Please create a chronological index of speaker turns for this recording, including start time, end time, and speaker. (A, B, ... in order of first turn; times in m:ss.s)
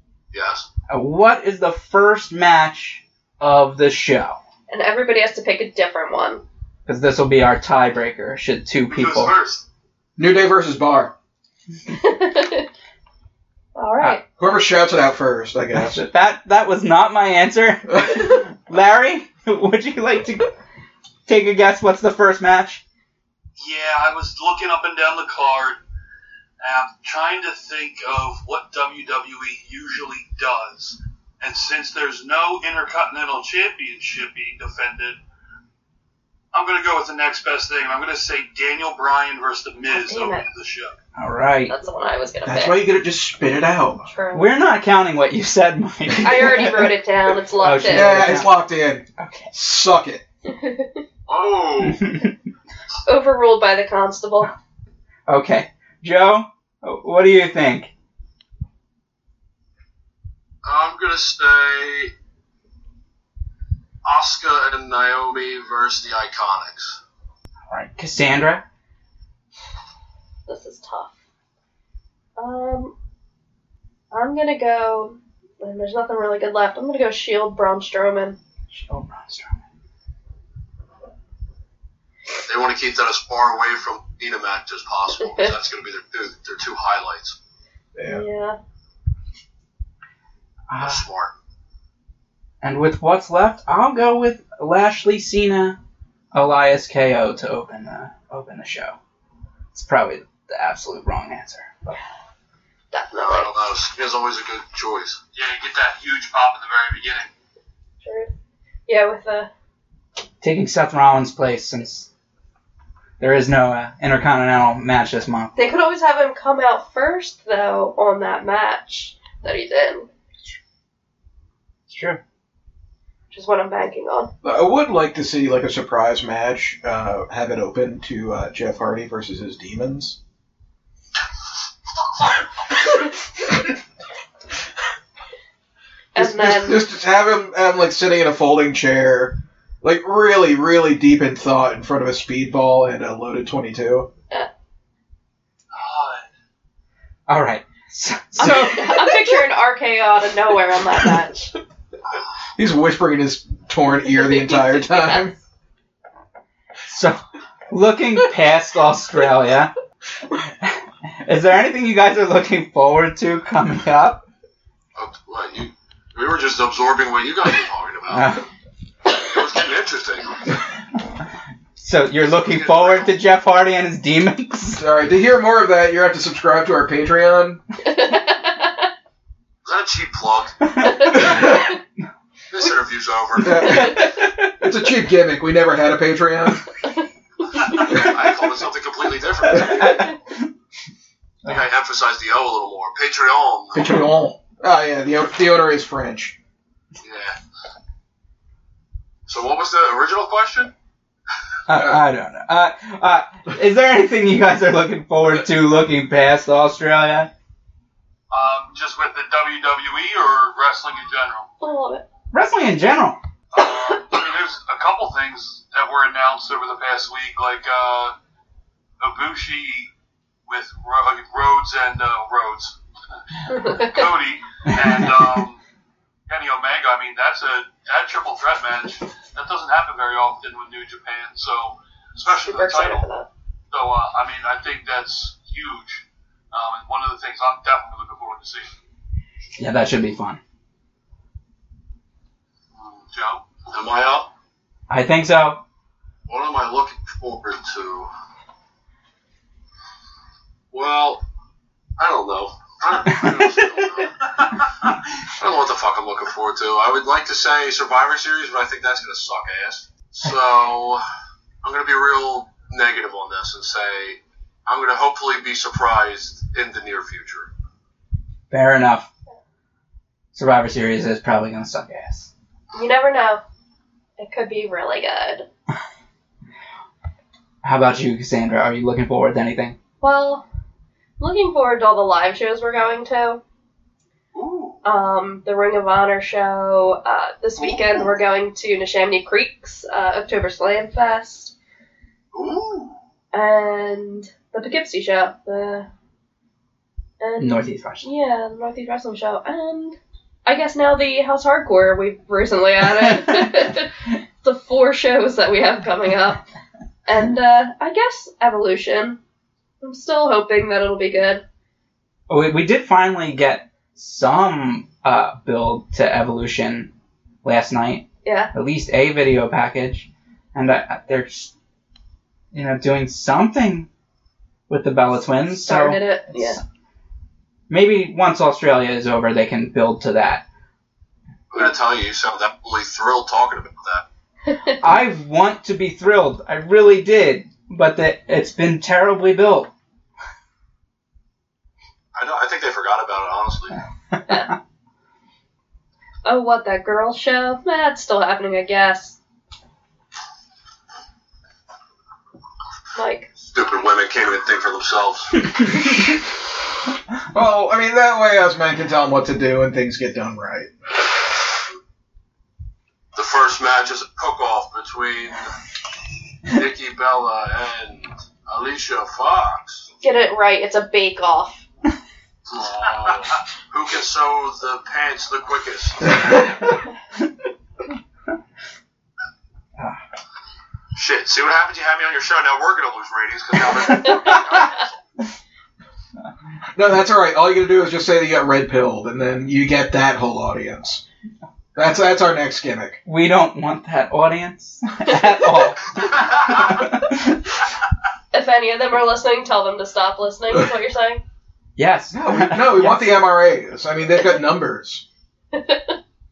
0:00.3-0:00.7 A
0:00.9-0:04.4 B
0:04.7-0:06.4 C
0:06.8-0:09.4 B
0:08.8-0:09.6 D
0:10.2-0:11.1 E
0:11.9-0:12.7 C
0:13.7-0:14.2 C
0:14.4-0:16.0 E
0:15.7-0:20.5 B
0:17.9-0:18.3 E
0:21.2-0:22.8 B
0:23.6-0:25.8 D
0:26.6-0:35.2 D
0:36.5-0:41.0 D
0:39.9-0:40.4 C
0:41.2-0:41.7 B
0:41.7-0:42.8 C
0:42.4-0:44.1 E
0:44.1-0:44.5 C
0:44.3-0:47.0 B
0:46.2-0:48.3 C
0:47.6-0:48.6 B
0:47.9-0:50.2 E
0:49.2-0:49.5 B
0:50.4-0:51.0 C
0:51.3-0:52.2 A
0:51.8-0:52.3 B
0:53.0-0:54.5 C
0:55.3-0:57.9 B
1:00.6-1:02.1 A
1:04.0-1:07.0 A
1:07.7-1:08.6 B
1:10.5-1:11.1 C
1:12.4-1:12.9 C
1:14.1-1:18.4 C
1:18.7-1:19.6 B
1:22.4-1:27.4 A
1:25.2-1:25.5 C
1:27.9-1:28.2 E
1:28.1-1:28.6 C
1:30.7-1:31.0 B
1:30.8-1:31.3 A
1:32.6-1:35.8 B
1:36.3-1:39.0 B
1:39.7-1:42.0 B
1:42.9-1:43.5 C
1:43.2-1:45.2 A
1:45.3-1:47.3 D
1:48.0-1:48.3 C
1:48.9-1:49.5 C
1:50.4-1:52.1 B
1:53.2-1:55.6 B
1:55.5-2:00.1 C
2:01.9-2:02.2 B
2:03.3-2:04.3 C
2:04.4-2:10.2 E
2:16.1-2:16.8 C
2:16.1-2:24.1 E
2:25.7-2:26.3 D
2:27.3-2:29.1 B
2:28.4-2:31.5 C
2:28.4-2:28.7 E
2:32.6-2:35.3 E
2:34.8-2:35.2 C
2:36.9-2:37.2 B
2:37.7-2:39.7 B
2:40.6-2:44.2 B
2:45.0-2:48.4 A
2:48.1-2:48.4 B
2:49.2-2:50.5 A
2:51.8-2:54.8 B
2:52.3-2:53.2 A
2:54.8-2:57.6 E
2:57.8-2:58.9 C
2:59.6-3:00.6 A
3:00.7-3:01.6 B
3:00.8-3:01.5 C
3:02.5-3:04.1 A
3:03.4-3:06.6 E
3:03.6-3:04.6 B
3:07.7-3:10.1 A
3:09.5-3:10.5 B
3:11.4-3:13.8 A
3:13.7-3:16.4 E
3:17.0-3:17.4 A
3:19.3-3:20.7 A
3:21.7-3:27.3 B
3:21.7-3:22.0 E
3:28.3-3:31.5 D
3:31.6-3:32.0 C
3:32.3-3:33.2 B
3:33.5-3:38.1 D
3:39.0-3:39.9 D
3:40.5-3:42.8 D
3:43.4-3:45.6 D
3:43.5-3:44.0 C
3:44.7-3:45.1 B
3:46.3-3:53.1 D
3:52.4-3:53.3 C
3:53.7-3:58.7 D
3:59.6-4:00.4 B
4:02.7-4:03.0 A
4:03.1-4:03.4 D
4:03.6-4:04.3 A
4:04.9-4:05.6 B
4:06.3-4:08.1 A
4:10.7-4:11.2 A
4:12.0-4:14.6 A
4:13.1-4:13.7 B
4:15.3-4:21.0 A
4:21.6-4:27.5 A
4:28.5-4:29.1 B
4:30.3-4:32.3 B
4:32.7-4:33.4 C
4:34.2-4:35.5 C
4:37.6-4:39.8 B
4:40.0-4:40.4 C
4:41.2-4:43.4 C
4:44.3-4:44.8 A
4:44.8-4:51.5 C
4:52.3-4:53.0 A
4:53.3-4:55.9 C
4:57.2-5:06.4 C
4:57.4-4:58.1 B
5:03.0-5:03.7 B
5:07.0-5:09.2 C
5:09.8-5:11.4 C
5:12.3-5:16.9 B
5:17.4-5:21.5 B
5:18.2-5:18.5 C
5:22.5-5:23.9 B
5:24.7-5:26.6 B
5:25.5-5:26.6 C
5:27.7-5:30.4 B
5:31.5-5:34.0 A
5:34.5-5:34.8 C
5:34.8-5:39.7 B
5:42.1-5:43.8 A
5:44.3-5:44.5 C
5:46.2-5:49.2 C
5:52.9-5:53.3 C
5:53.4-5:55.8 A
5:57.3-6:00.7 E
6:03.1-6:05.6 A
6:06.5-6:09.9 A
6:10.0-6:11.6 C
6:12.4-6:16.6 A
6:20.9-6:24.9 A
6:23.9-6:24.3 B
6:26.7-6:31.0 E
6:31.7-6:33.0 E
6:33.0-6:37.5 B
6:38.3-6:41.2 C
6:41.8-6:43.2 B
6:42.1-6:45.0 E
6:45.5-6:45.9 C